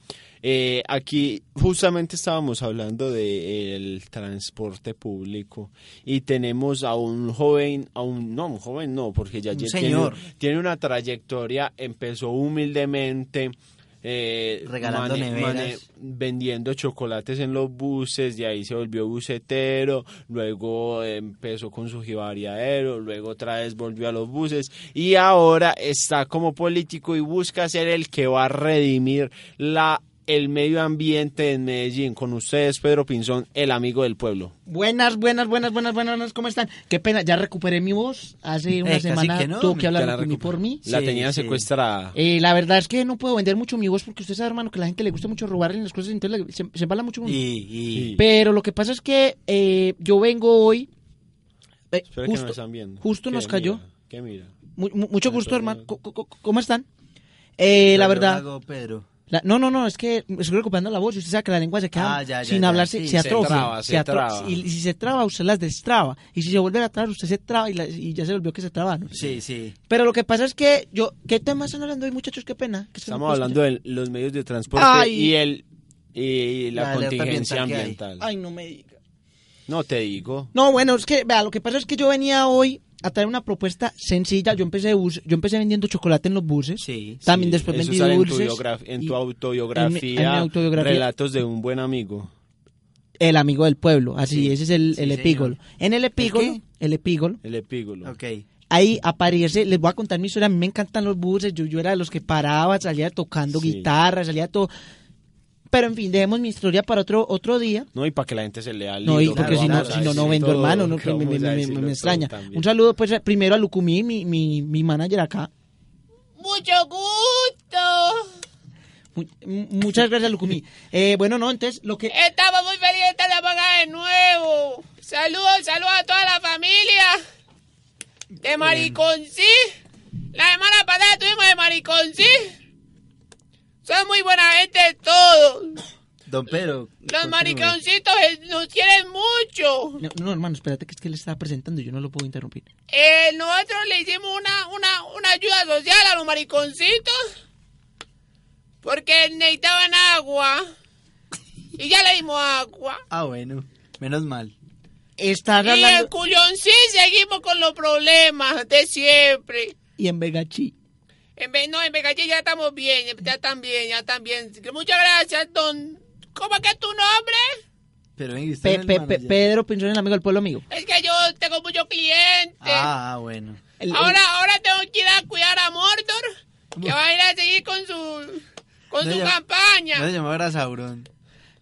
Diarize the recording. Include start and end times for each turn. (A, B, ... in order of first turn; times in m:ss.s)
0:00.4-0:34.5 A
0:09.5-0:10.2 B
0:14.6-0:15.8 B
0:34.7-0:40.8 C
0:38.8-0:39.9 B
0:39.9-0:42.2 A
0:40.8-0:41.7 B
0:42.1-0:47.4 C
0:47.2-0:48.1 B
0:47.9-0:48.2 A
0:48.2-0:50.9 C
0:51.9-0:53.8 C
0:52.1-0:54.5 A
0:54.8-0:56.9 C
0:55.3-0:55.8 A
0:57.6-0:58.4 C
0:57.9-0:59.1 B
0:59.3-1:09.2 C
1:02.0-1:03.7 B
1:03.2-1:04.6 A
1:09.1-1:09.8 B
1:09.9-1:13.6 C
1:13.1-1:18.2 A
1:14.8-1:15.3 C
1:16.7-1:18.0 B
1:18.2-1:18.9 C
1:19.7-1:20.5 A
1:20.5-1:29.1 C
1:26.8-1:27.2 B
1:27.3-1:32.3 A
1:29.8-1:31.0 C
1:33.2-1:37.4 C
1:34.3-1:35.6 B
1:36.2-1:36.6 B
1:37.4-1:38.1 A
1:38.0-1:38.4 B
1:38.7-1:44.7 C
1:43.5-1:43.9 A
1:45.7-1:47.9 C
1:47.9-1:52.7 A
1:49.0-1:55.5 C
1:49.2-1:50.7 B
1:56.4-1:58.3 D
1:59.1-2:02.1 C
2:02.1-2:07.2 D
2:08.4-2:09.6 D
2:08.6-2:09.0 B
2:10.3-2:12.5 D
2:13.8-2:15.8 D
2:16.3-2:17.8 B
2:17.1-2:20.0 D
2:20.0-2:22.7 C
2:22.9-2:27.2 D
2:28.8-2:30.7 D
2:31.8-2:33.0 D
2:33.1-2:34.5 B
2:35.2-2:36.1 C
2:35.5-2:39.8 D
2:40.0-2:40.7 C
2:41.4-2:47.5 D
2:48.2-2:49.5 B
2:48.6-2:50.6 C
2:50.7-2:52.9 D
2:52.6-2:53.6 B
2:53.8-2:54.2 C
2:53.9-2:56.2 D
2:56.8-3:00.1 D
2:59.0-2:59.4 B
2:59.9-3:01.1 B